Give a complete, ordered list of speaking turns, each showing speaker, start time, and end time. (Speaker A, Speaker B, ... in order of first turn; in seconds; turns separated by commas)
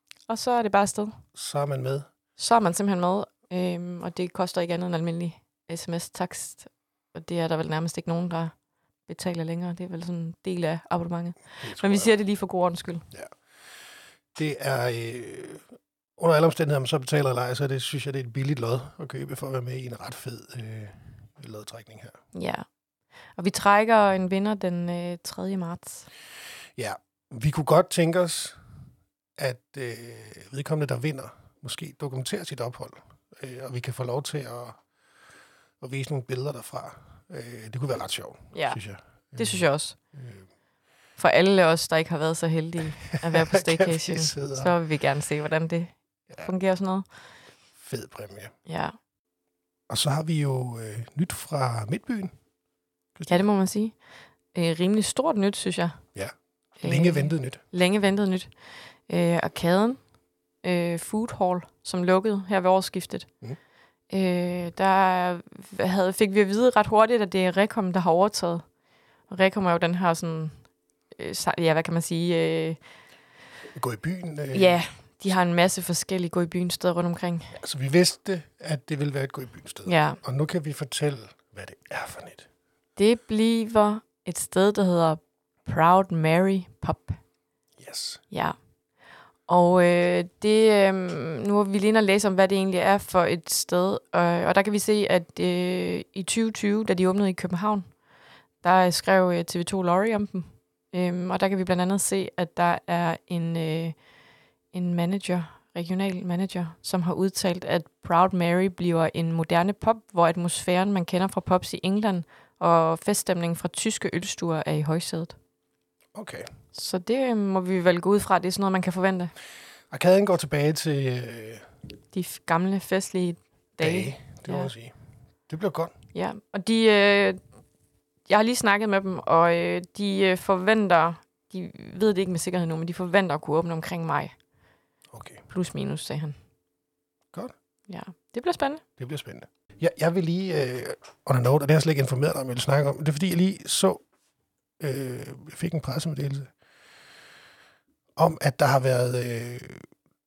Speaker A: 0.3-1.1, Speaker B: 1.3-2.0, Speaker A: 2.4-8.5, Speaker A: 9.1-13.0, Speaker B: 11.6-12.1, Speaker B: 14.3-22.1, Speaker A: 22.3-22.6, Speaker A: 23.4-26.1, Speaker B: 26.8-28.6, Speaker B: 29.4-34.8, Speaker B: 35.8-40.4, Speaker A: 38.5-38.8, Speaker A: 39.3-40.0, Speaker A: 41.2-47.0, Speaker B: 43.3-44.7, Speaker B: 47.8-48.5, Speaker A: 48.6-48.9, Speaker B: 49.9-52.3, Speaker B: 53.1-53.4, Speaker A: 53.3-53.9, Speaker A: 54.5-56.0, Speaker B: 56.1-57.6, Speaker A: 56.8-58.5, Speaker A: 59.1-60.0, Speaker A: 60.6-63.3, Speaker A: 64.1-68.6, Speaker A: 69.3-70.5, Speaker A: 71.1-72.8, Speaker B: 73.7-74.8, Speaker A: 74.5-77.5, Speaker B: 77.5-82.5, Speaker A: 79.8-80.2, Speaker A: 83.0-87.2, Speaker B: 87.8-88.2, Speaker A: 88.3-88.5, Speaker A: 89.5-97.8, Speaker A: 98.6-104.0, Speaker A: 104.7-115.3, Speaker B: 116.1-116.5, Speaker A: 116.7-119.3, Speaker B: 119.9-121.7, Speaker A: 122.1-124.7, Speaker B: 123.8-124.9, Speaker B: 125.5-125.9, Speaker A: 126.1-127.4, Speaker A: 128.3-134.3, Speaker B: 135.1-135.4, Speaker A: 135.5-136.4, Speaker A: 137.9-138.8, Speaker B: 139.0-144.0, Speaker B: 144.8-146.5, Speaker B: 148.2-149.8